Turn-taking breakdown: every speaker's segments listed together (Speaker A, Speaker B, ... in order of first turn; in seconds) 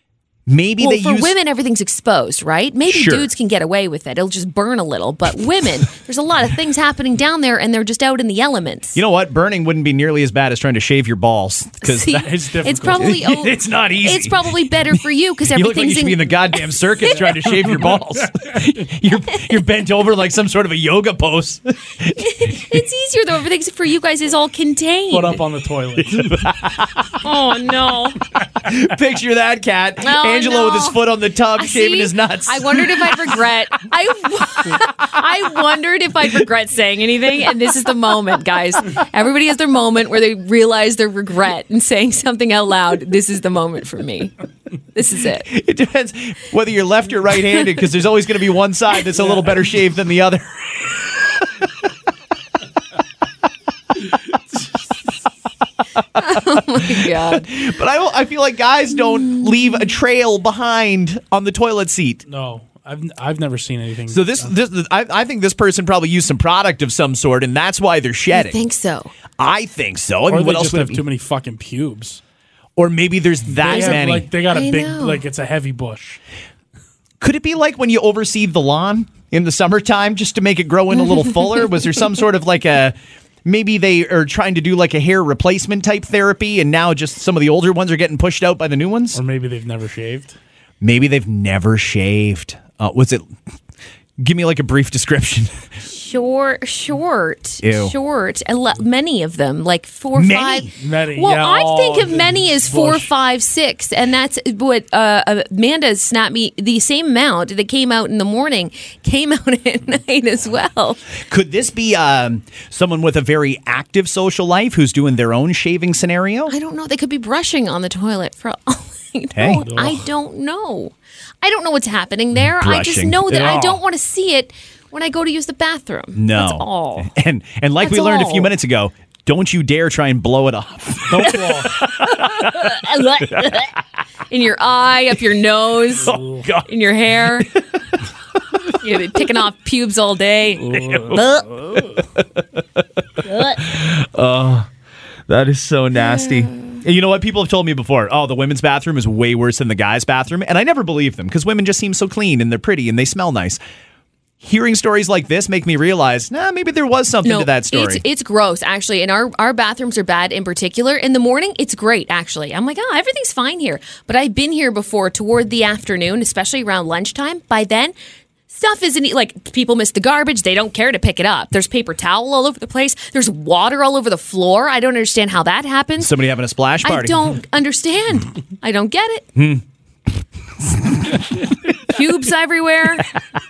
Speaker A: 0.5-1.3, 2.9-3.3, 8.9-12.3, 12.9-22.8, 26.1-27.2, 28.5-33.3, 45.5-51.1, 56.7-62.2, 64.1-68.6, 69.4-71.0, 72.8-74.3, 77.2-89.2, 90.8-93.2, 94.2-95.6, 97.6-97.9, 100.1-100.7, 111.3-116.5, 119.3-119.7, 122.6-123.6, 126.1-132.7, 136.0-136.7, 140.7-144.7, 145.3-153.6, 154.4-158.0, 176.0-177.3, 179.3-179.6
Speaker B: 0.8-9.0, 11.8-17.3, 22.1-25.4, 27.2-28.2, 30.0-31.0, 31.5-44.4, 44.9-45.5, 56.2-57.5, 68.3-69.1, 73.6-75.2, 95.8-111.0, 116.5-127.1, 127.8-128.5, 131.3-133.8, 134.3-137.5, 138.6-141.6, 143.2-143.6, 146.0-146.8, 157.2-167.9, 168.5-176.1, 176.8-179.3, 181.8-183.0
Speaker C: 12.2-13.1, 17.6-17.9, 25.1-26.5, 62.2-64.5, 70.3-72.2, 73.5-76.2, 89.1-90.4, 100.8-103.1, 119.6-120.0, 123.4-123.7, 131.1-131.7, 136.1-136.4, 140.7-141.1